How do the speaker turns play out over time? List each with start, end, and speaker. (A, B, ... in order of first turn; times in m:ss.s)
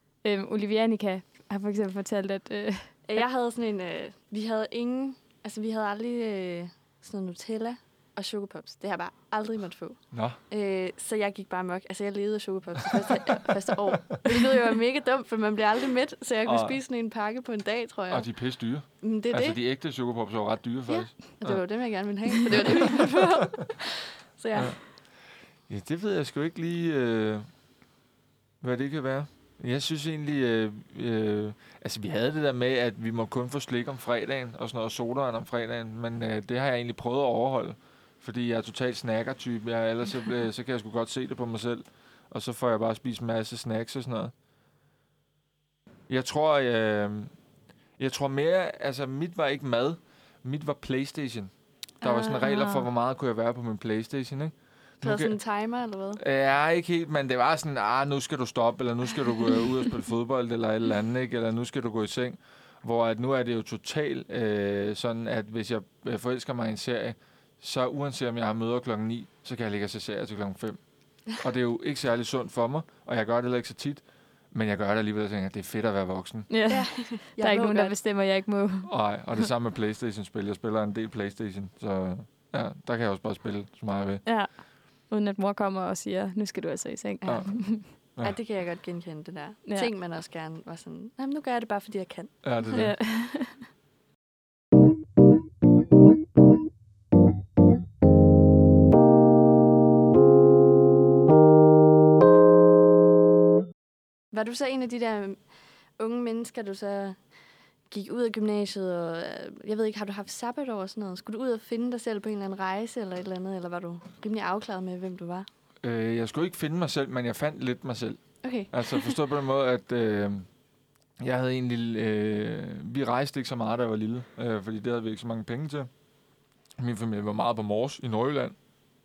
0:00.2-0:03.3 A
0:03.1-0:18.3 B
0:10.1-0:10.4 C
0:16.4-0:16.8 C
0:18.1-0:21.6 C
0:19.0-0:19.6 B
0:20.9-0:24.8 B
0:22.5-0:23.0 C
0:24.6-0:24.9 C
0:25.7-0:27.5 C
0:28.6-0:44.3 C
0:46.1-0:47.4 C
0:48.0-0:55.4 C
0:52.1-0:52.9 A
0:55.0-0:56.2 B
0:56.2-1:10.8 C
1:11.3-1:16.5 C
1:16.5-1:18.9 A
1:16.7-1:17.9 B
1:18.8-1:24.2 C
1:24.2-1:27.9 A
1:27.2-1:32.8 B
1:27.3-1:28.4 C
1:32.4-1:33.0 C
1:32.7-1:33.7 A
1:44.3-1:47.2 B
1:47.9-1:55.5 B
1:55.8-2:00.5 C
1:58.4-1:59.2 B
2:01.2-2:05.9 C
2:06.8-2:08.6 C